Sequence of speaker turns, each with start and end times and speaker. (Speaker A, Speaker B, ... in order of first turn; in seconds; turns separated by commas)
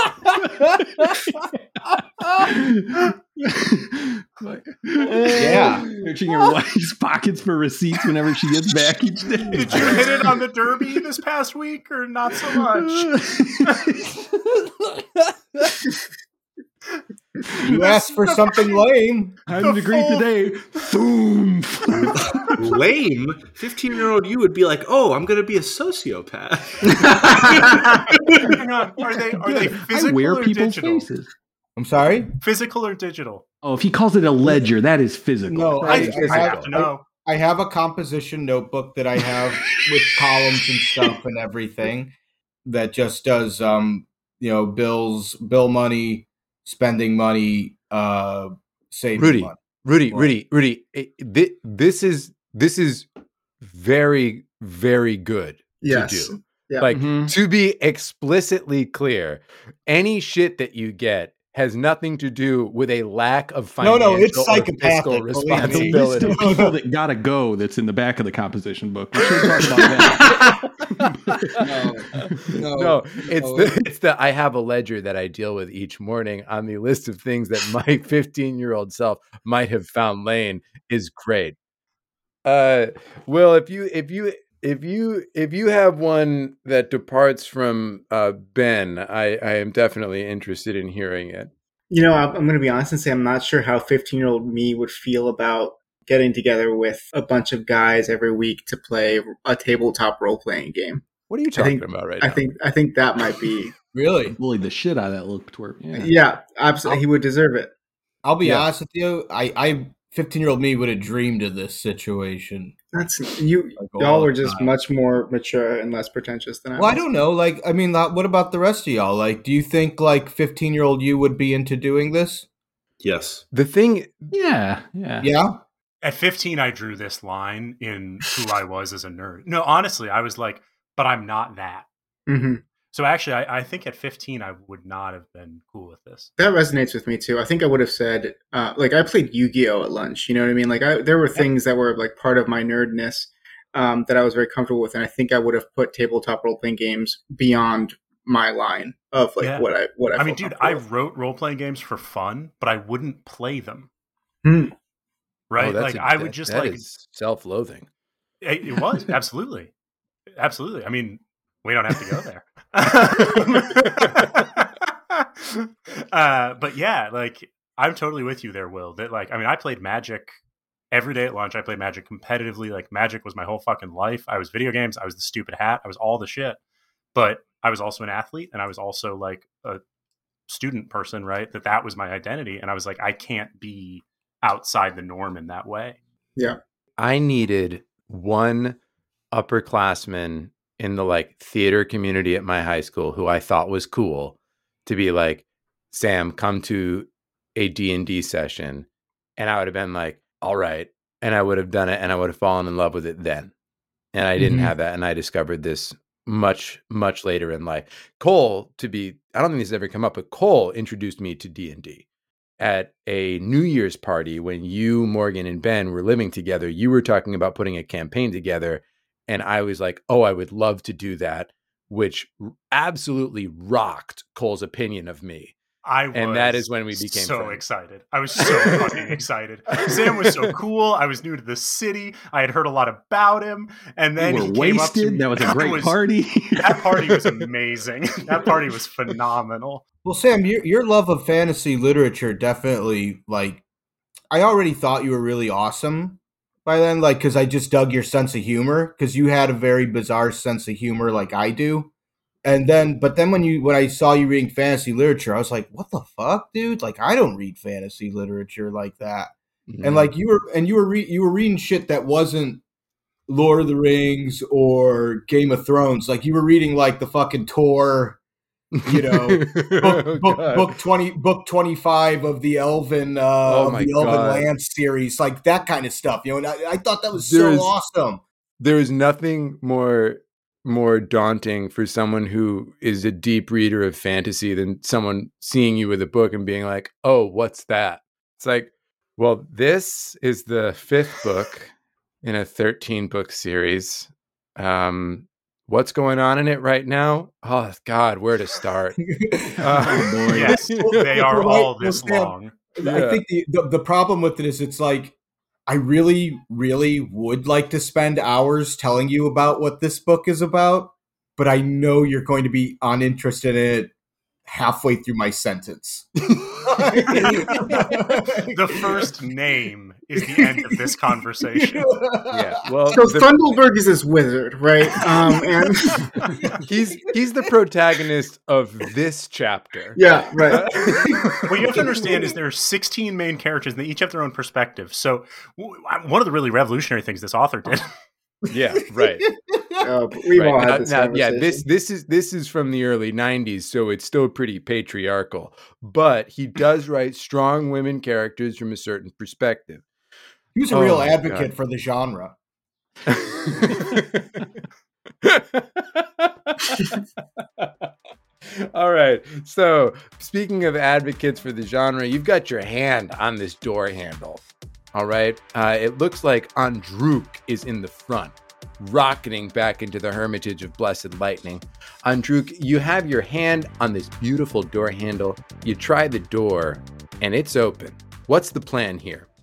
Speaker A: 0.4-10.3, Speaker B: 0.5-1.3, Speaker C: 5.3-5.9, Speaker D: 9.5-13.2, Speaker A: 12.8-15.0, Speaker C: 17.6-19.4, Speaker D: 17.7-18.8, Speaker A: 19.5-22.6, Speaker D: 19.5-20.3, Speaker E: 22.6-27.8, Speaker D: 27.5-31.1, Speaker A: 29.3-31.3, Speaker C: 31.8-32.4, Speaker D: 32.4-33.4, Speaker A: 33.6-36.3, Speaker C: 34.4-34.7, Speaker C: 35.5-42.1, Speaker B: 35.8-36.7, Speaker D: 35.9-37.0, Speaker C: 42.6-50.3, Speaker B: 49.1-53.1, Speaker B: 53.6-66.6, Speaker F: 55.8-56.9, Speaker A: 56.9-57.3, Speaker C: 63.8-66.8, Speaker A: 65.5-71.6, Speaker C: 70.2-70.6, Speaker B: 70.2-81.5, Speaker C: 71.5-73.8, Speaker A: 72.2-72.6, Speaker B: 82.4-91.5, Speaker F: 91.9-103.8, Speaker B: 101.3-102.5, Speaker C: 103.9-104.3, Speaker A: 104.2-106.1, Speaker F: 106.0-107.7, Speaker C: 108.2-112.7, Speaker F: 112.9-117.0, Speaker C: 113.8-114.7, Speaker C: 116.7-122.5, Speaker E: 123.0-123.4, Speaker B: 123.5-124.3, Speaker A: 124.3-125.3, Speaker C: 125.2-125.6, Speaker D: 126.0-131.9, Speaker F: 132.3-132.6, Speaker D: 132.9-136.3, Speaker F: 136.4-150.8, Speaker D: 149.4-153.9, Speaker F: 154.4-154.7, Speaker D: 155.5-156.8, Speaker B: 155.6-157.9, Speaker D: 158.4-159.7, Speaker D: 160.4-170.4, Speaker D: 170.9-176.6, Speaker D: 177.1-179.8, Speaker D: 180.5-186.0, Speaker B: 187.0-188.8, Speaker B: 189.3-198.9, Speaker B: 199.4-203.5, Speaker B: 204.1-212.0, Speaker B: 212.6-225.5, Speaker D: 225.8-236.0, Speaker B: 226.1-227.6, Speaker B: 229.8-230.1, Speaker A: 234.2-236.8, Speaker D: 236.5-239.8, Speaker C: 240.0-243.6, Speaker C: 244.3-251.9, Speaker C: 252.4-262.6, Speaker B: 259.7-260.1, Speaker C: 263.3-268.2, Speaker B: 268.8-270.7, Speaker C: 268.8-278.2, Speaker B: 273.4-274.5, Speaker B: 277.1-277.7, Speaker B: 278.6-299.0, Speaker C: 299.0-305.1, Speaker B: 299.6-301.0, Speaker A: 299.7-300.6, Speaker D: 300.3-302.6, Speaker B: 302.8-303.2, Speaker C: 305.7-313.9, Speaker C: 314.4-319.0, Speaker D: 318.5-321.9, Speaker C: 320.2-320.7, Speaker C: 321.6-323.0, Speaker B: 322.3-323.3, Speaker F: 322.9-326.2, Speaker C: 326.2-326.6, Speaker B: 326.6-330.0, Speaker F: 329.9-330.9, Speaker B: 330.6-331.7, Speaker C: 330.6-332.1, Speaker D: 331.4-337.9, Speaker B: 338.5-339.3, Speaker C: 339.2-339.8, Speaker F: 339.8-341.6, Speaker B: 340.3-349.8, Speaker C: 350.5-352.4, Speaker B: 350.7-351.5, Speaker B: 353.1-354.4, Speaker B: 355.2-357.9, Speaker B: 358.4-379.3